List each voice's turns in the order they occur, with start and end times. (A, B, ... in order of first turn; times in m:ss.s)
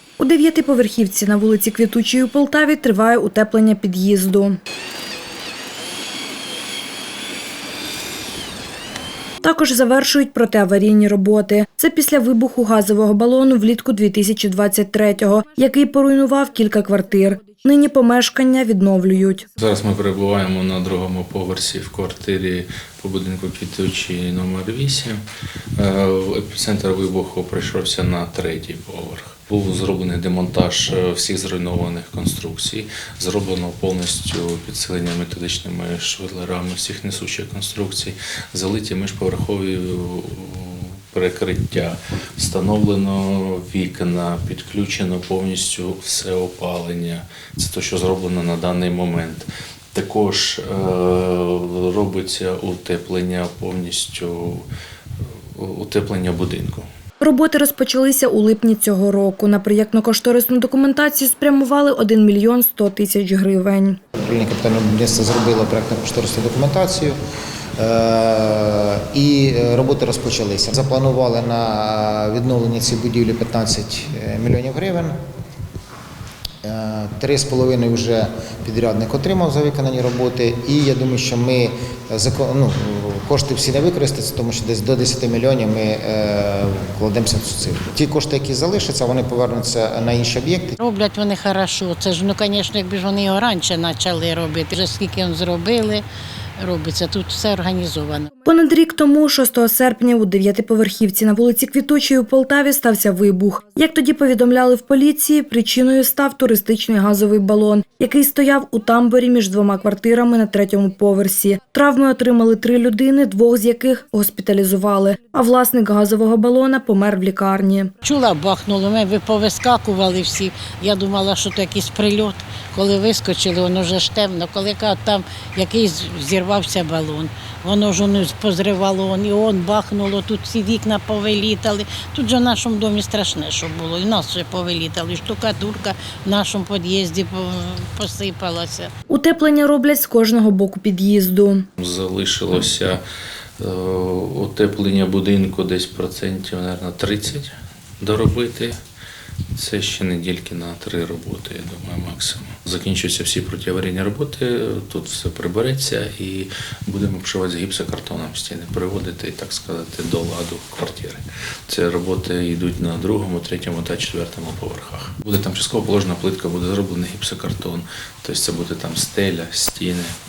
0:00.2-0:04.6 A
0:09.4-0:19.4 A
0:19.6-0:25.2 B
0:25.8-0:54.7 B
0:55.5-0:56.9 B
0:57.2-1:04.0 A
1:04.2-1:07.2 C
1:07.8-1:15.1 C
1:16.6-1:30.8 C
1:30.8-1:36.0 D
1:36.6-1:38.3 D
1:38.4-1:57.9 A
1:58.0-2:18.9 D
2:19.1-2:21.6 A
2:21.8-2:23.0 B
2:23.6-2:28.8 B
2:29.5-2:50.1 B